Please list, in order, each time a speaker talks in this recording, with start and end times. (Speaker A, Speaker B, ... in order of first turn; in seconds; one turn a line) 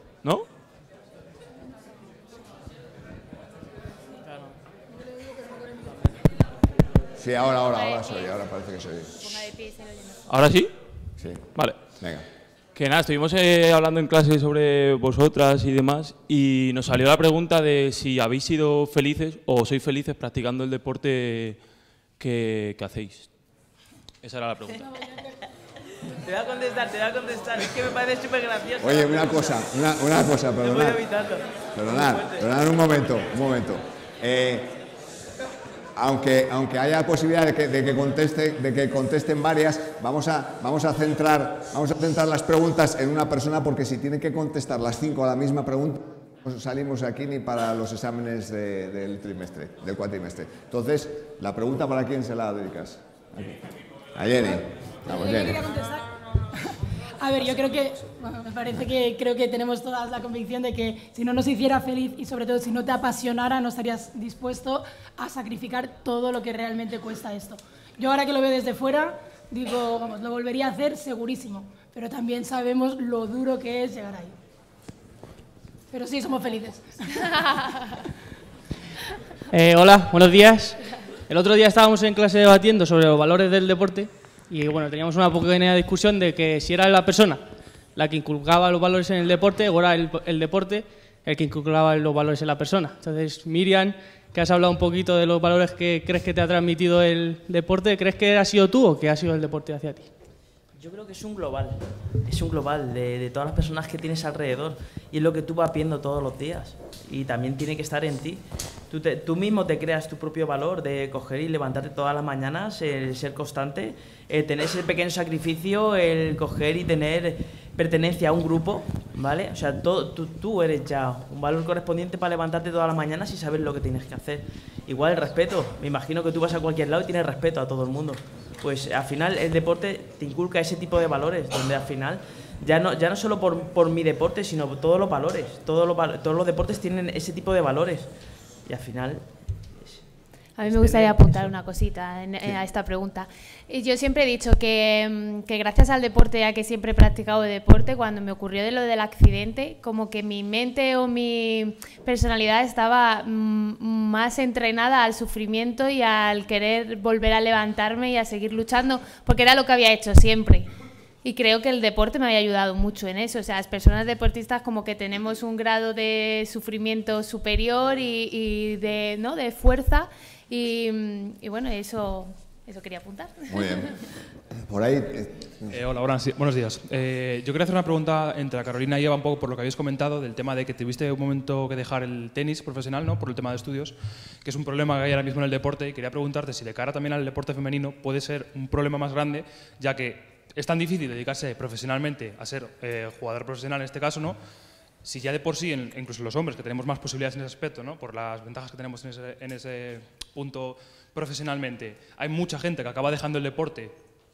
Speaker A: 7.2-9.2
Speaker B: 7.7-8.4
Speaker B: 9.2-10.2
Speaker C: 10.3-10.7
Speaker A: 11.2-11.4
Speaker C: 11.5-11.8
Speaker A: 12.0-12.2
Speaker C: 12.8-21.7
Speaker C: 22.2-23.3
Speaker C: 24.2-24.8
Speaker D: 26.2-29.6
Speaker A: 28.8-31.1
Speaker D: 30.6-32.5
Speaker A: 31.7-34.8
Speaker A: 36.0-53.6
Speaker A: 54.1-55.6
Speaker E: 55.1-56.1
Speaker E: 56.7-74.3
Speaker E: 75.9-77.3
Speaker F: 79.5-87.4
Speaker F: 87.9-100.1
Speaker D: 100.8-138.1
Speaker D: 138.7-139.3
Speaker D: 139.8-140.0
Speaker B: 140.6-160.7
Speaker D: 140.6-141.5
Speaker B: 161.2-173.9
Speaker A: 173.5-173.9
Speaker A: 174.7-175.7
Speaker G: 175.7-194.4
Speaker G: 195.0-203.9